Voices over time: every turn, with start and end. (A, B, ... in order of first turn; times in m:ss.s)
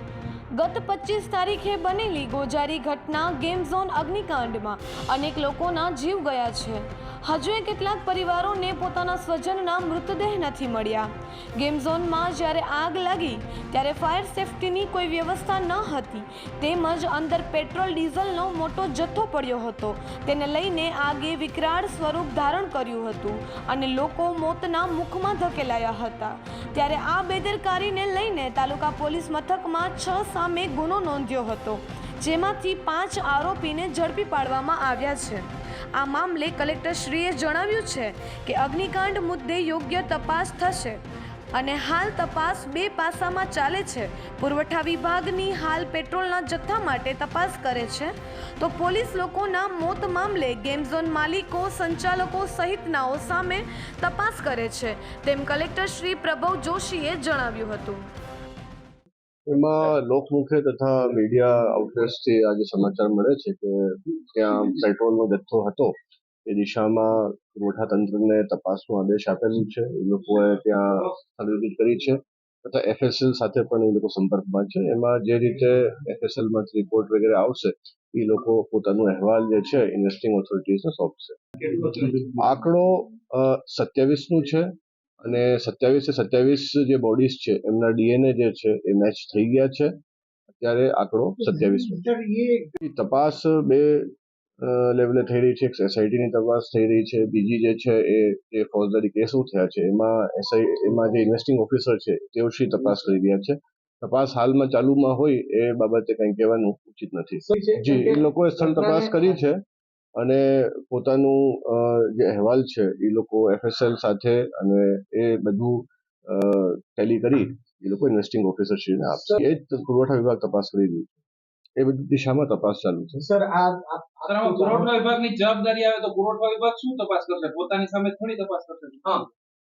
0:00.5-0:41.0 A
0:41.5-0:58.0 A
0:59.5-1:05.9 B
1:06.4-1:29.9 B
1:30.6-1:32.0 B
1:31.4-1:32.7 C
1:32.8-1:49.6 B
1:47.4-1:48.2 C
1:48.8-1:49.1 C
1:50.2-2:01.2 B
2:01.8-2:03.2 B
2:03.2-2:04.9 C
2:04.2-2:09.0 D